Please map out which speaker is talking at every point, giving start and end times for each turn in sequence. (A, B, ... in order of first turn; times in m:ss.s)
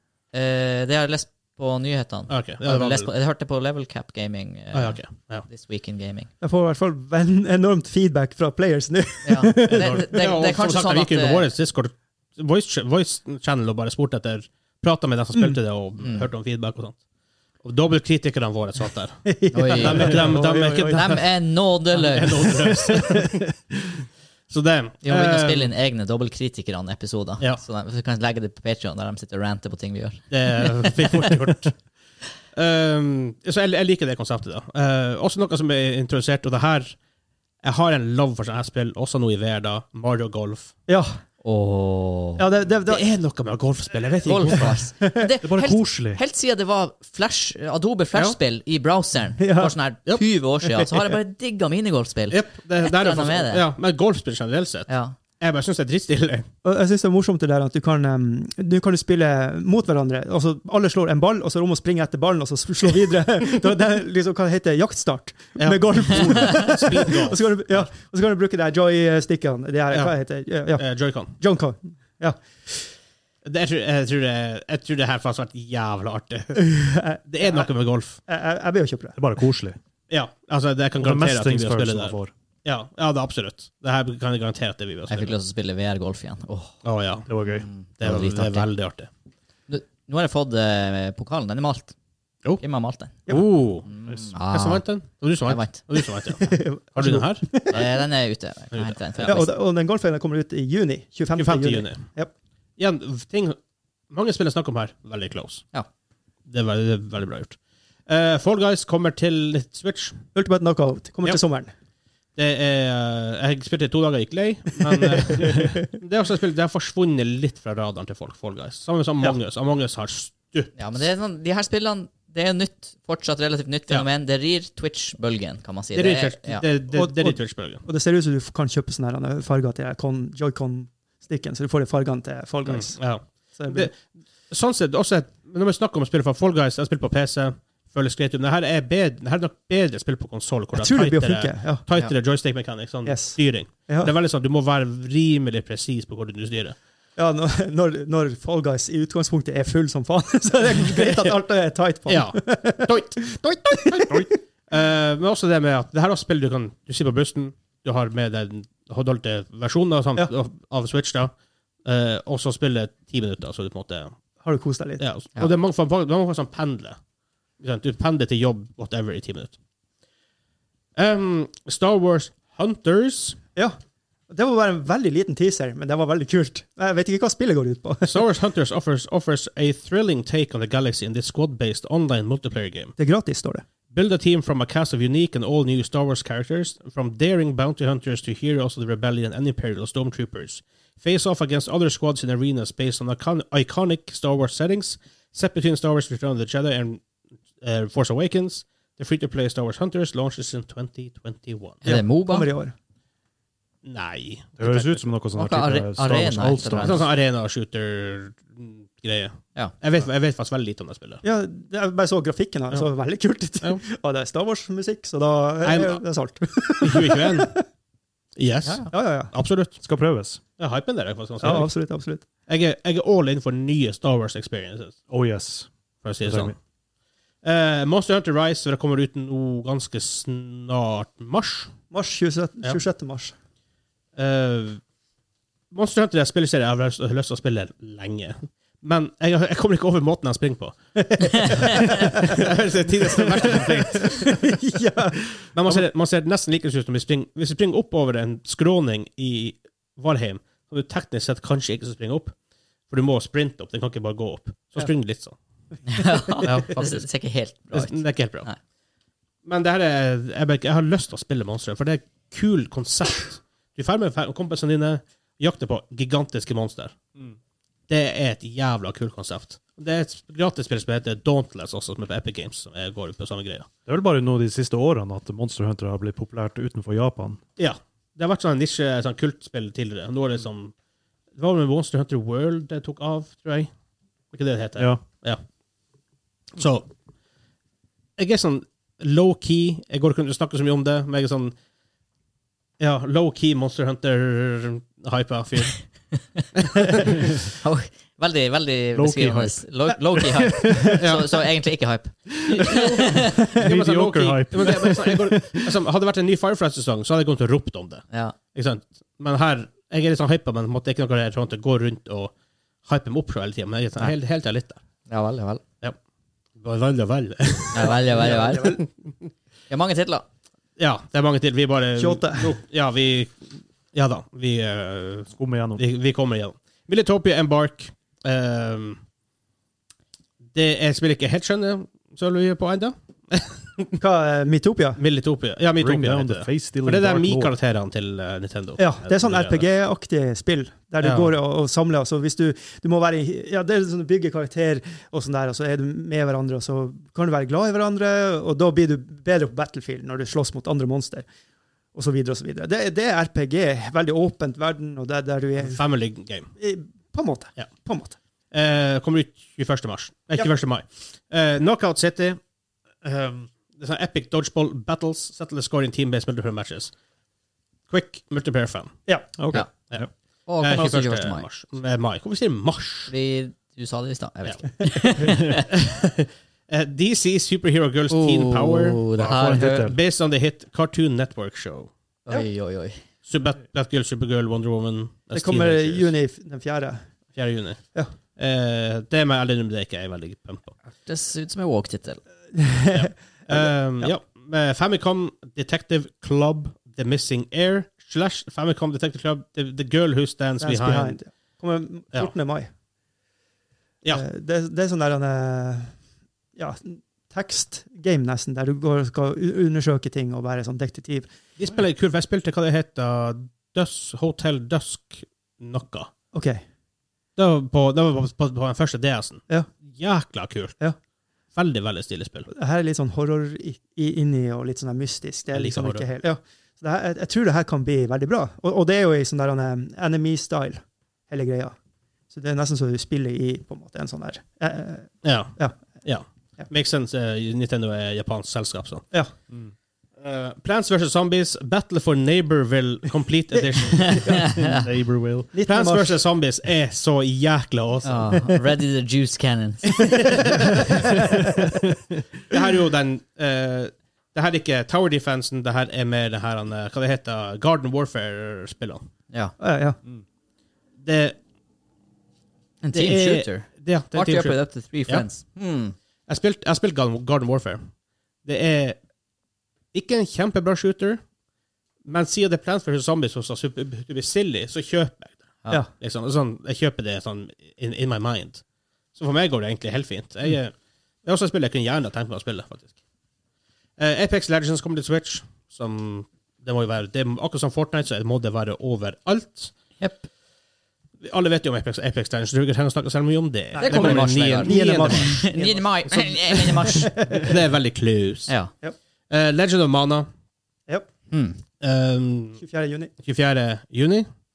0:00.3-0:06.3 A
0:02.3-0:03.1 B
0:04.7-0:05.4 B
0:06.4-0:10.2 C
0:09.2-0:11.5 A
0:09.6-0:17.0 B
0:16.0-0:16.3 A
0:17.6-0:21.3 B
0:19.2-0:21.2 C
0:19.5-0:20.3 A
0:20.9-0:22.6 A
0:21.9-0:23.5 B
0:22.7-0:23.4 C
0:24.5-0:25.7 B
0:25.0-0:31.3 A
0:30.3-0:31.8 B
0:32.5-0:37.0 B
0:37.6-0:40.7 B
0:40.9-0:41.2 C
0:41.4-0:42.4 A
0:42.4-0:43.0 C
0:42.8-0:44.8 B
0:44.2-0:53.6 A
0:45.0-0:45.3 C
0:45.4-0:46.2 D
0:49.4-0:49.7 C
0:52.3-0:56.5 B
0:54.9-0:55.2 A
0:56.6-1:12.9 C
1:05.6-1:07.9 B
1:10.8-1:11.3 B
1:13.4-1:16.7 B
1:16.5-1:17.7 C
1:17.2-1:18.2 B
1:18.2-1:19.2 C
1:19.2-1:19.8 D
1:20.1-1:25.3 B
1:21.0-1:22.3 D
1:25.1-1:26.8 A
1:26.8-1:27.3 B
1:27.3-1:27.7 D
1:27.4-1:28.7 A
1:28.0-1:29.1 B
1:29.7-1:31.9 A
1:32.6-1:33.2 A
1:33.3-1:33.9 B
1:33.8-1:34.8 A
1:34.1-1:34.3 D
1:34.5-1:37.8 B
1:35.4-1:35.8 A
1:36.4-1:37.8 C
1:37.7-1:39.5 A
1:38.7-1:39.4 B
1:39.2-1:42.3 C
1:41.4-1:42.0 B
1:42.8-1:43.6 B
1:44.1-1:45.6 B
1:46.5-1:50.2 B
1:50.3-1:51.7 C
1:52.4-2:00.7 B
1:54.9-1:55.8 C
2:00.8-2:06.6 A
2:05.9-2:07.8 B
2:06.9-2:13.9 C
2:12.6-2:26.8 B
2:20.7-2:21.8 C
2:23.0-2:24.1 C
2:27.2-2:34.3 C
2:31.0-2:31.3 B
2:32.1-2:41.3 B
2:41.8-2:44.2 B
2:44.4-2:45.0 C
2:45.0-2:47.0 B
2:47.6-2:49.5 B
2:51.0-2:53.4 B
2:54.3-2:58.2 C
2:58.0-3:02.9 B
3:03.0-3:03.6 C
3:03.9-3:17.0 B
3:17.6-3:21.8 B
3:21.8-3:22.5 A
3:21.8-3:22.7 C
3:23.8-3:25.1 B
3:24.6-3:27.0 D
3:25.3-3:27.1 A
3:26.8-3:31.2 B
3:31.2-3:37.6 C
3:35.6-3:36.0 B
3:36.8-3:37.5 B
3:38.4-3:39.8 B
3:38.9-3:39.3 C
3:39.8-3:40.4 D
3:40.6-3:41.7 B
3:41.4-3:42.2 C
3:42.5-3:45.0 B
3:45.1-3:46.5 D
3:46.0-3:46.6 B
3:47.4-3:51.7 B
3:51.9-3:53.3 C
3:54.2-3:54.8 B
3:55.7-4:04.4 B
4:01.1-4:05.8 C
4:05.5-4:12.3 B
4:12.9-4:15.4 B
4:15.9-4:18.6 A
4:16.3-4:16.6 C
4:16.4-4:17.0 B
4:17.7-4:18.5 B
4:19.4-4:26.9 B
4:27.9-4:33.7 B
4:33.8-4:37.4 D
4:37.6-4:40.7 B
4:41.3-4:43.7 B
4:44.3-4:45.4 B
4:44.8-4:45.0 D
4:46.6-4:46.9 B
4:48.2-4:51.5 B
4:52.8-4:55.9 B
4:56.6-4:57.3 B
4:57.6-5:03.4 A
4:58.9-5:01.0 D
5:01.0-5:01.3 B
5:02.5-5:12.3 B
5:02.5-5:05.7 D
5:08.1-5:08.4 A
5:12.8-5:14.8 B
5:15.1-5:15.6 A
5:16.6-5:18.0 B
5:17.7-5:18.8 A
5:17.9-5:18.8 C
5:18.6-5:19.1 B
5:19.7-5:20.2 A
5:20.8-5:29.0 B
5:21.9-5:22.6 C
5:25.3-5:25.8 D
5:30.5-5:34.0 B
5:34.0-5:35.0 C
5:35.0-5:39.6 B
5:35.8-5:37.5 D
5:38.8-5:51.3 C
5:41.0-5:41.3 B
5:51.9-5:55.8 C
5:55.6-5:56.5 B
5:56.6-5:58.2 C
5:58.5-6:02.4 B
6:03.0-6:06.9 B
6:07.9-6:08.9 B
6:09.4-6:10.1 D
6:10.4-6:11.4 A
6:10.6-6:13.1 B
6:13.1-6:15.6 A
6:15.6-6:21.9 B
6:18.1-6:19.9 A
6:19.2-6:20.0 D
6:22.2-6:23.0 A
6:23.2-6:26.1 B
6:25.3-6:27.0 C
6:27.3-6:27.8 B
6:28.4-6:30.7 B
6:31.0-6:32.2 A
6:32.5-6:34.1 C
6:32.9-6:41.2 B
6:40.6-6:42.7 C
6:44.1-6:46.0 C
6:46.6-6:51.3 C
6:51.6-6:56.1 B
6:56.3-6:56.6 C
6:57.4-7:00.8 B
7:01.5-7:02.5 B
7:02.5-7:11.7 C
7:05.5-7:06.0 B
7:12.3-7:15.8 C
7:15.2-7:19.0 B
7:20.2-7:24.5 B
7:24.0-7:24.8 A
7:24.5-7:25.5 D
7:25.5-7:26.2 C
7:25.6-7:28.5 B
7:28.0-7:30.5 A
7:30.0-7:31.2 B
7:31.1-7:31.6 C
7:32.5-7:39.0 B
7:39.6-7:40.0 C
7:41.0-7:41.4 B
7:42.8-7:45.9 A
7:42.9-7:45.2 B
7:46.3-7:47.9 B
7:48.4-7:49.0 B
7:49.9-7:51.2 B
7:52.0-7:58.6 B
7:59.1-8:02.9 B
8:04.0-8:09.7 B
8:10.0-8:10.3 A
8:11.2-8:15.4 B
8:13.7-8:17.5 C
8:13.8-8:17.2 A
8:17.3-8:18.5 B
8:19.3-8:20.3 B
8:21.3-8:21.6 A
8:21.8-8:22.6 B
8:22.6-8:23.1 C
8:23.2-8:24.3 B